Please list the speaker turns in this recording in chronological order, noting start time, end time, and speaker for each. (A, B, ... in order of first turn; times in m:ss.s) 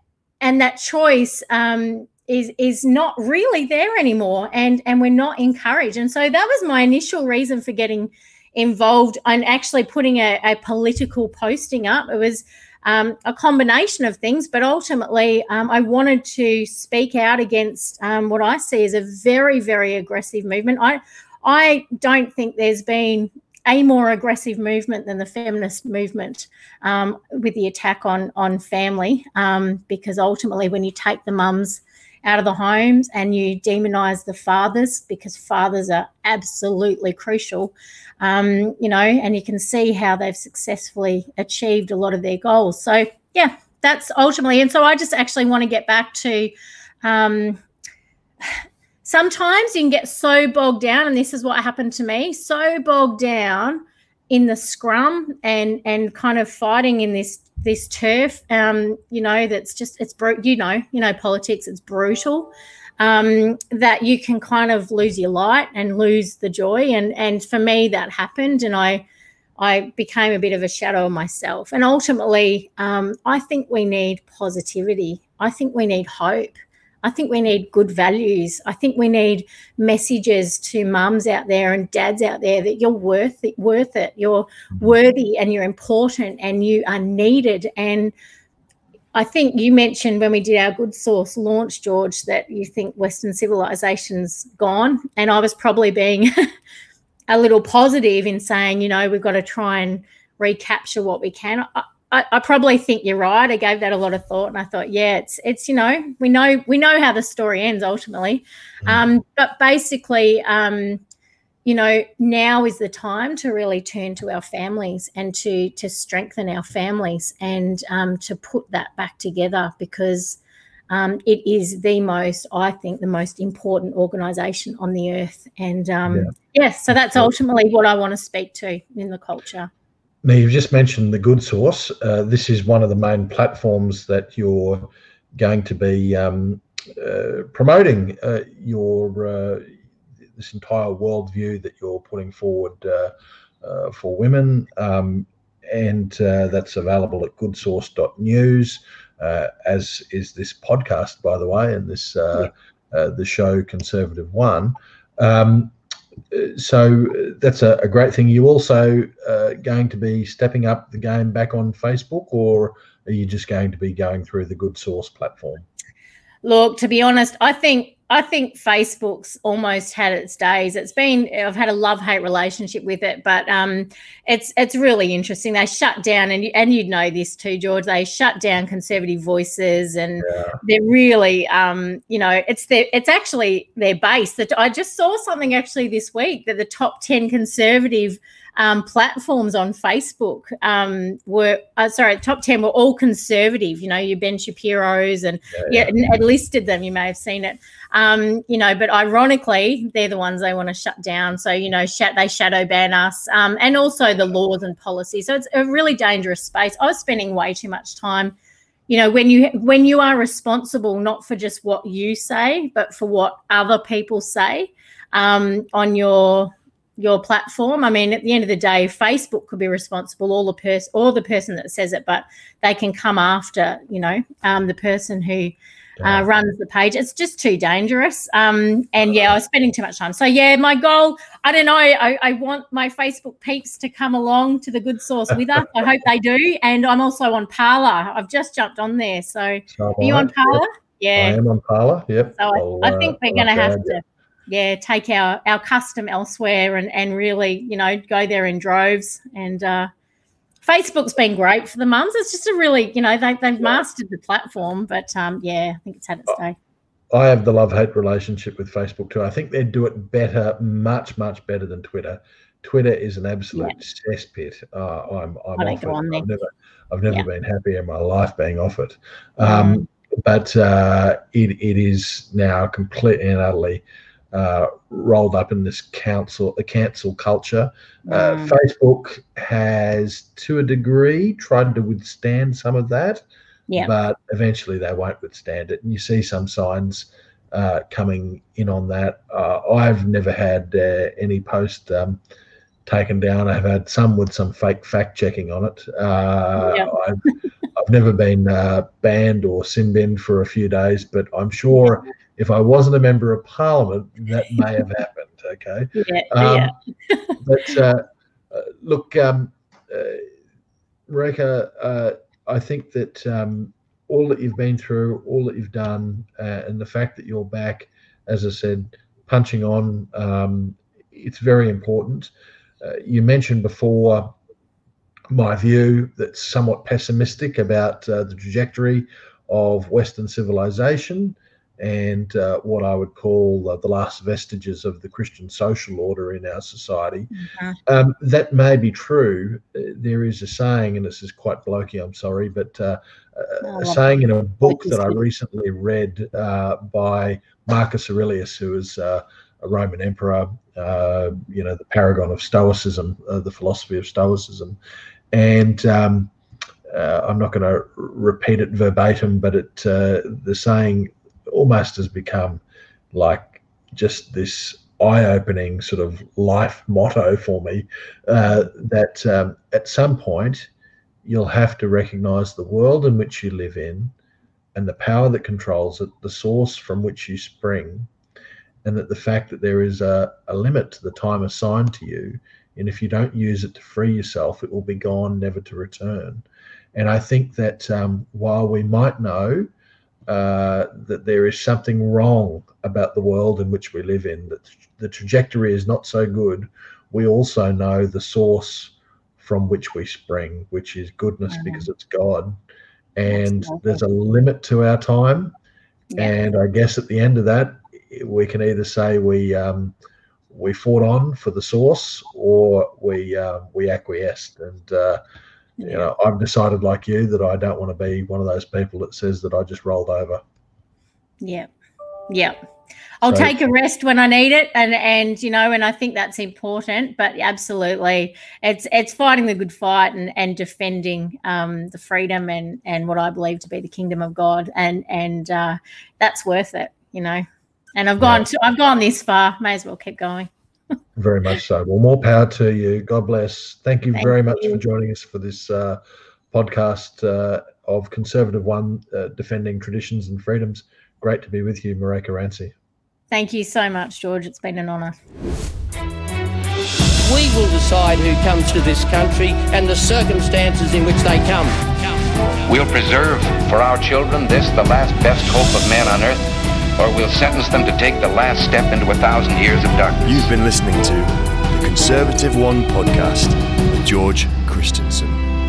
0:00.4-0:46.5 A
0:47.0-0:47.6 A
0:49.0-1:09.0 A
1:09.6-1:28.1 A
1:29.1-1:36.3 A
1:37.3-1:51.0 A
1:51.6-2:00.4 A
2:00.9-2:09.7 A
2:06.0-2:06.3 B
2:06.9-2:07.3 B
2:10.2-2:19.8 B
2:20.3-2:35.7 B
2:36.3-2:45.6 B
2:46.4-3:28.3 A
3:00.2-3:00.6 B
3:15.5-3:16.0 B
3:28.9-4:01.4 A
3:46.0-3:46.2 B
3:59.7-4:00.6 B
4:01.1-4:04.0 B
4:02.4-4:09.9 A
4:10.6-4:16.6 A
4:17.1-4:43.2 B
4:25.6-4:26.2 A
4:29.4-4:29.8 A
4:38.1-4:38.6 A
4:43.7-4:52.2 B
4:52.8-5:06.7 B
4:56.6-4:56.9 A
5:05.9-5:07.3 A
5:07.4-5:10.3 B
5:11.1-5:22.3 B
5:22.8-5:24.3 B
5:25.3-5:37.3 B
5:37.3-5:37.8 A
5:37.8-5:54.8 B
5:43.6-5:45.2 A
5:55.3-5:56.3 B
5:56.9-6:02.6 B
6:03.1-6:10.7 B
6:11.2-6:14.1 B
6:14.7-6:18.1 B
6:18.8-6:29.7 B
6:30.3-6:42.6 B
6:41.5-6:41.9 A
6:43.2-6:45.5 B
6:43.3-6:44.0 A
6:46.2-6:49.9 B
6:50.5-6:55.2 B
6:55.8-6:56.0 A
6:55.8-7:00.4 B
7:01.4-7:01.7 A
7:02.3-7:02.5 A
7:03.2-7:17.4 A
7:03.2-7:03.6 B
7:18.0-7:20.5 A
7:18.2-7:18.5 B
7:21.2-7:26.0 B
7:24.1-7:24.8 A
7:26.5-7:32.7 B
7:33.3-7:35.1 A
7:37.2-7:42.1 C
7:42.6-7:46.5 D
7:47.0-7:50.5 D
7:50.2-7:55.4 E